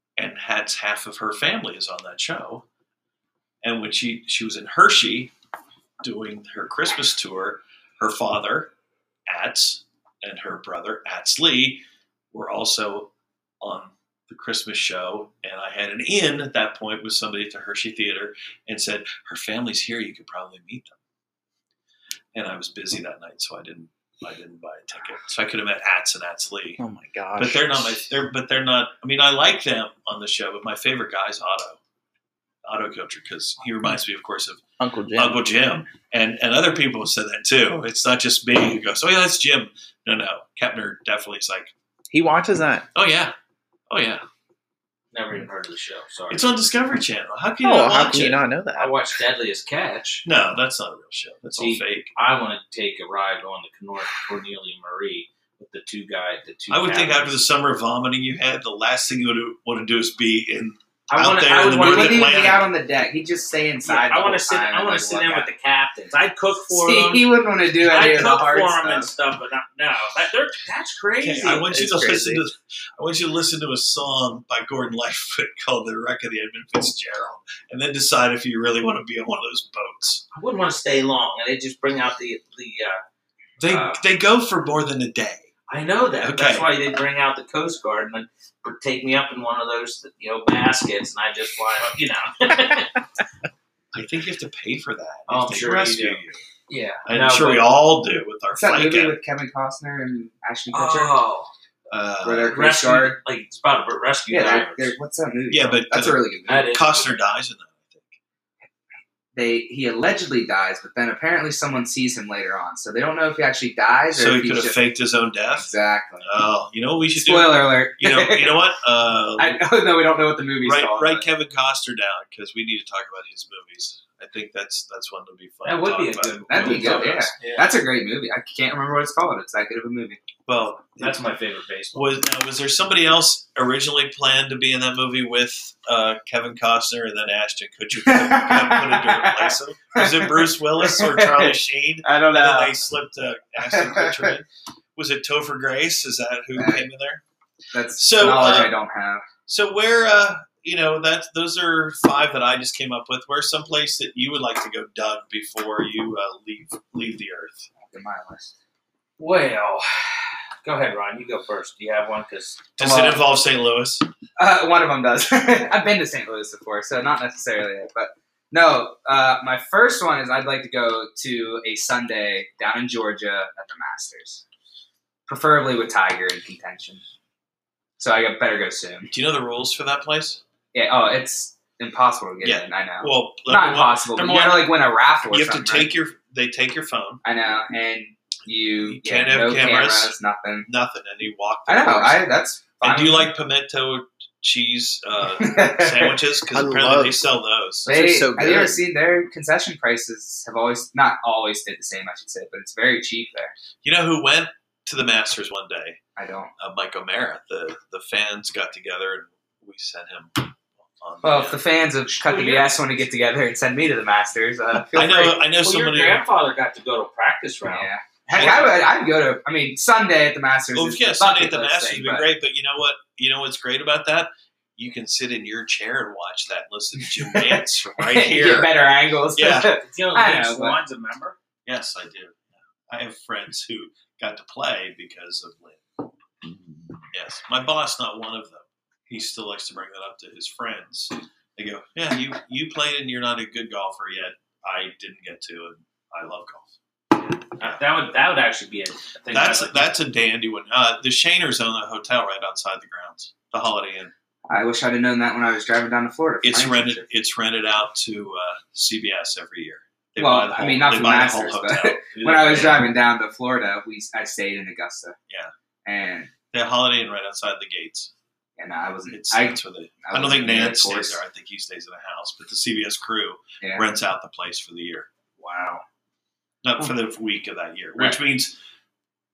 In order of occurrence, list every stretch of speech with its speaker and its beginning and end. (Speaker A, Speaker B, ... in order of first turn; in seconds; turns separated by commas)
Speaker A: 0.2-2.6, Speaker A: 3.6-5.3, Speaker A: 6.0-8.7, Speaker A: 9.3-21.0, Speaker A: 22.3-26.8, Speaker B: 26.8-28.0, Speaker A: 27.4-31.8, Speaker A: 32.6-34.6, Speaker B: 34.8-35.4, Speaker A: 35.1-41.7, Speaker B: 42.1-42.9, Speaker A: 42.9-43.3, Speaker A: 43.9-44.2, Speaker C: 45.1-46.5, Speaker A: 46.3-48.4, Speaker B: 47.6-48.9, Speaker C: 48.8-50.2, Speaker A: 50.2-52.1, Speaker C: 51.6-57.4, Speaker A: 56.7-62.7, Speaker C: 61.1-62.5, Speaker D: 61.8-65.5, Speaker C: 63.9-67.3, Speaker D: 66.7-69.1, Speaker C: 67.8-71.6, Speaker A: 71.2-80.2, Speaker B: 71.7-72.4, Speaker C: 80.3-83.0, Speaker A: 83.6-85.5, Speaker C: 83.7-84.0, Speaker C: 85.7-93.0, Speaker A: 86.2-86.7, Speaker A: 93.9-96.4, Speaker C: 95.3-97.8, Speaker A: 97.1-99.2, Speaker D: 98.5-101.2, Speaker C: 100.7-101.5, Speaker A: 101.9-102.6, Speaker D: 102.2-103.2, Speaker C: 102.5-104.9, Speaker D: 104.3-106.7, Speaker A: 105.5-108.2, Speaker C: 106.5-107.2, Speaker D: 109.3-114.8, Speaker A: 114.1-115.7, Speaker D: 115.5-116.2, Speaker A: 116.2-119.6, Speaker D: 117.1-118.6, Speaker D: 119.4-121.3, Speaker A: 120.6-127.3, Speaker C: 125.6-127.7, Speaker D: 126.5-130.2, Speaker A: 130.4-131.2, Speaker C: 131.0-132.2, Speaker A: 131.9-147.2, Speaker D: 138.1-142.7, Speaker D: 143.7-144.3, Speaker D: 146.6-146.8, Speaker D: 147.7-149.2, Speaker A: 148.0-148.7, Speaker A: 149.5-157.7, Speaker D: 157.8-158.5, Speaker C: 159.2-162.7, Speaker A: 162.8-164.1, Speaker D: 162.8-163.2, Speaker D: 164.4-174.4, Speaker D: 175.3-177.0, Speaker D: 178.0-179.1, Speaker A: 179.1-180.4, Speaker D: 180.7-185.9, Speaker A: 182.4-184.7, Speaker A: 185.3-187.2, Speaker D: 187.2-190.7, Speaker A: 188.8-190.1, Speaker A: 190.7-192.2, Speaker D: 191.7-193.3, Speaker A: 192.8-197.9, Speaker D: 195.4-196.2, Speaker B: 196.5-197.2, Speaker B: 197.8-198.8, Speaker D: 197.9-203.5, Speaker A: 203.8-206.0, Speaker D: 206.2-206.5, Speaker A: 206.6-211.6, Speaker D: 211.2-215.4, Speaker C: 212.2-212.7, Speaker A: 214.9-216.2, Speaker C: 215.6-217.9, Speaker D: 217.7-222.3, Speaker A: 218.3-218.8, Speaker A: 220.7-229.7, Speaker D: 227.2-230.8, Speaker C: 229.8-231.3, Speaker A: 231.7-235.8, Speaker A: 237.1-246.7, Speaker C: 247.5-249.8, Speaker A: 249.3-254.1, Speaker D: 254.5-257.0, Speaker A: 256.4-262.0, Speaker D: 260.2-265.1, Speaker C: 262.1-262.9, Speaker D: 265.9-266.3, Speaker A: 266.5-268.1, Speaker D: 268.6-271.2, Speaker A: 269.1-275.1, Speaker D: 275.4-275.8, Speaker A: 276.6-278.6